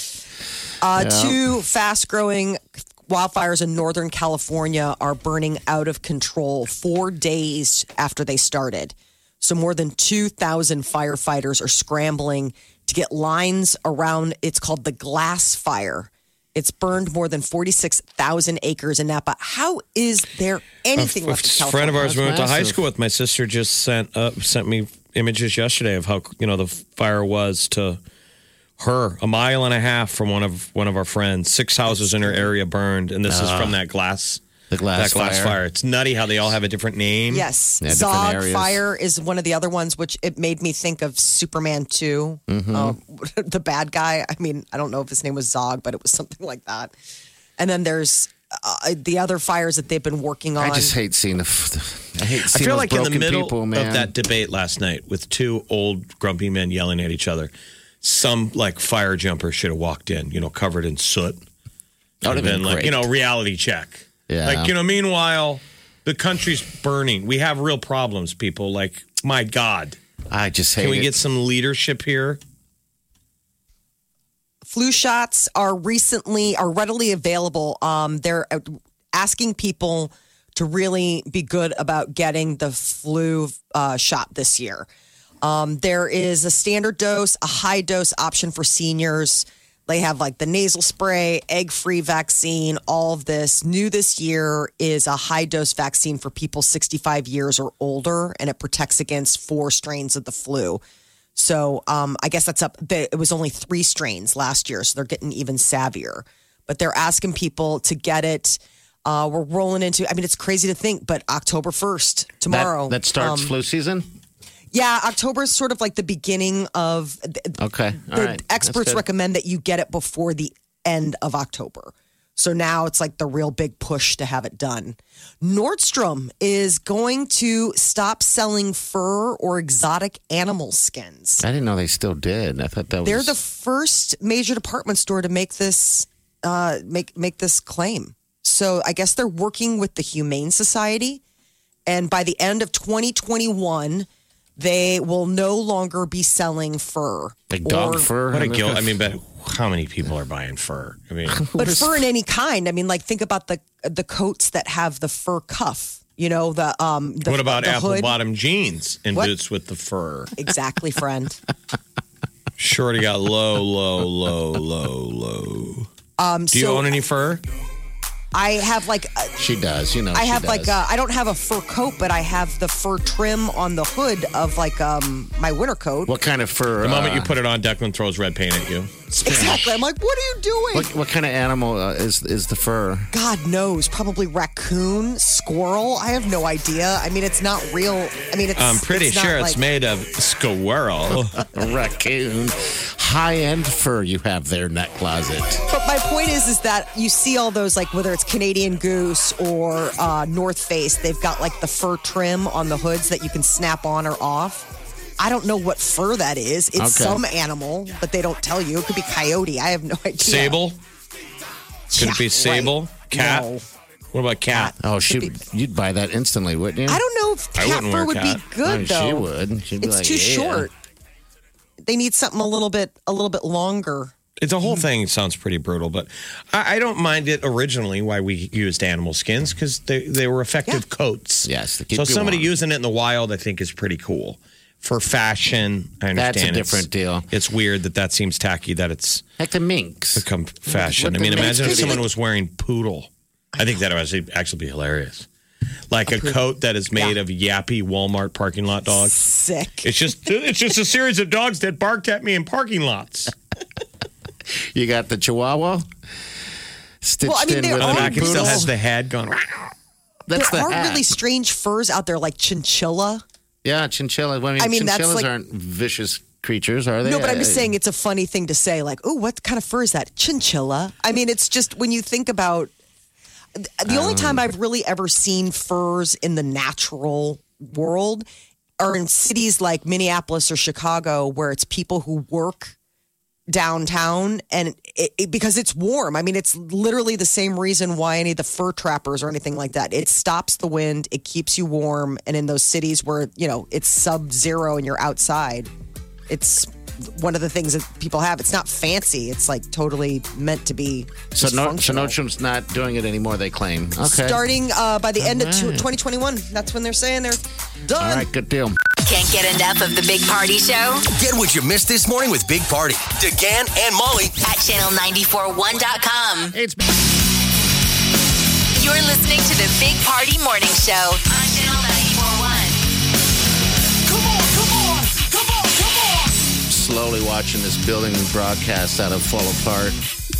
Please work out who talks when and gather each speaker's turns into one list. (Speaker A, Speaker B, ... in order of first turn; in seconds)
Speaker A: 0.8-22.1, 37.3-46.9, 47.6-50.9, 74.7-84.8, 85.4-100.8, 101.3-113.5, 114.7-131.4, 133.0-141.2, 141.9-148.1, 151.6-158.1, 160.4-161.4, 166.2-166.9, 168.3-169.3, 170.1-176.1, 179.2-180.9, 183.1-189.6, 195.7-204.7, 205.2-210.6, 211.9-213.6, 214.5-215.3, 216.9-219.3, 219.8-220.7, 221.8-224.1, 241.4-242.0, 246.1-246.3, 248.9-249.9, 257.2-258.7, 260.3-263.2, 264.6-265.3, 267.0-272.7, 273.6-278.2, 278.8-282.7, 283.5-295.7, 296.3-302.1, 304.1-308.3
Speaker B: 0.9-1.5, 21.9-22.8, 33.3-33.8, 34.7-35.6, 37.8-38.8, 42.5-43.0, 50.6-54.1, 62.2-63.1, 64.3-64.7, 70.3-71.2, 112.5-114.0, 117.6-119.0, 131.4-133.3, 147.5-149.0, 151.3-152.0, 169.4-170.8, 176.1-177.3, 179.2-179.8, 180.7-183.1, 191.5-195.6, 206.8-207.2, 214.8-217.0, 218.6-220.7, 231.4-232.5, 236.1-237.3, 239.4-242.0, 254.7-255.9, 257.0-258.7, 260.3-261.1, 263.6-267.7, 273.9-274.4, 301.3-304.4, 305.2-305.9, 308.0-308.8, 316.5-316.9, 323.6-325.3, 326.7-330.0
Speaker C: 20.9-28.0, 28.8-34.4, 34.9-37.5, 52.4-57.5, 58.0-61.4, 62.2-70.0, 70.8-72.4, 148.3-151.4, 157.2-160.3, 162.6-165.9, 166.5-167.4, 176.8-179.0, 188.6-191.4, 210.2-210.8, 212.0-213.5, 214.1-214.7, 217.6-218.4, 224.4-239.2, 240.2-245.3, 245.9-249.2, 249.8-253.3, 257.8-259.7
Speaker D: 309.0-311.0, 314.4-316.5, 318.8-322.8
Speaker E: 311.1-314.4